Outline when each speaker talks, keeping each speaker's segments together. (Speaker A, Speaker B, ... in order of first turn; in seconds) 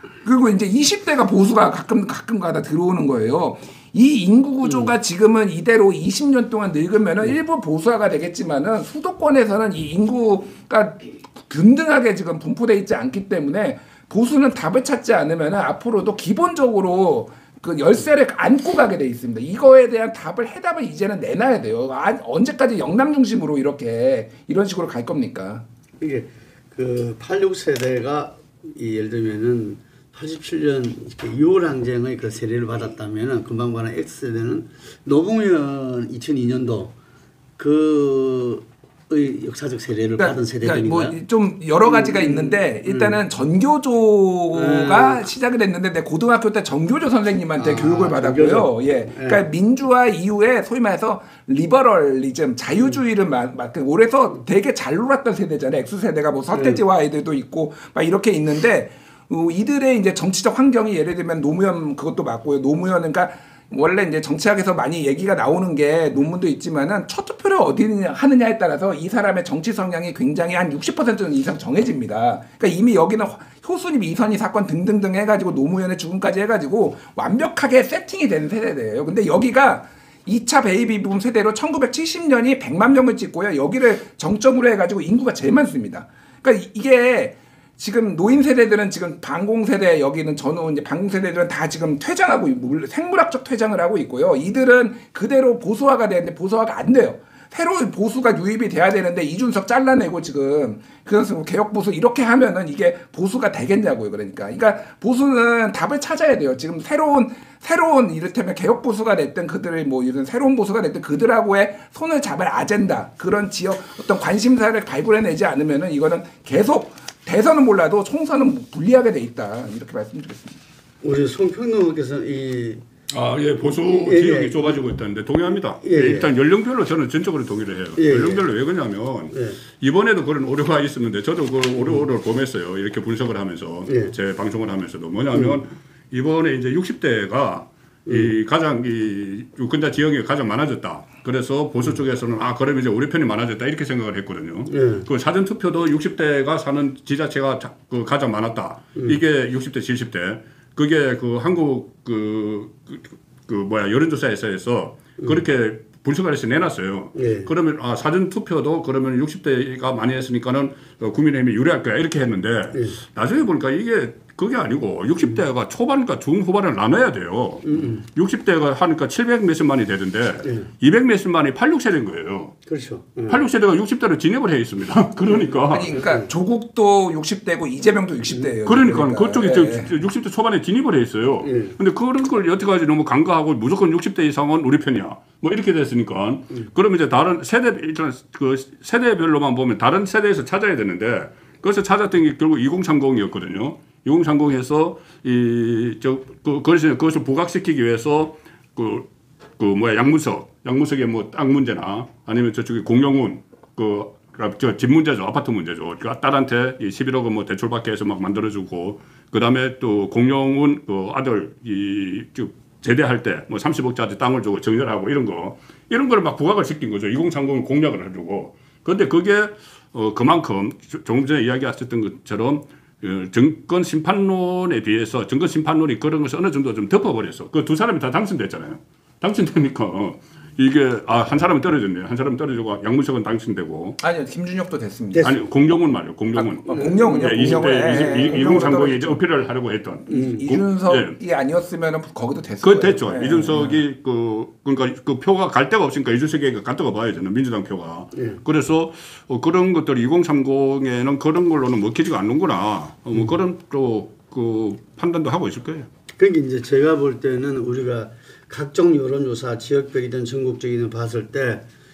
Speaker A: 0.2-25.6, 40.2-120.6, 175.7-180.0, 234.0-235.4, 236.3-239.2, 240.2-243.8
Speaker B: 4.7-4.9, 26.0-37.0, 37.6-41.2, 41.8-43.2, 44.5-45.3, 47.6-49.4, 56.5-56.8, 121.0-122.8, 123.8-124.8, 125.8-126.3, 128.0-128.4, 129.3-129.6, 133.9-134.1, 144.7-145.1, 157.2-157.5, 167.6-168.1, 170.4-170.7, 172.7-173.4, 175.3-176.3, 181.4-181.8, 235.1-235.4, 236.7-238.7, 240.1-240.4, 248.2-248.4, 256.2-261.7
Speaker C: 123.1-172.6, 173.3-175.9, 178.7-199.1, 199.6-234.0, 235.2-241.2, 242.6-255.9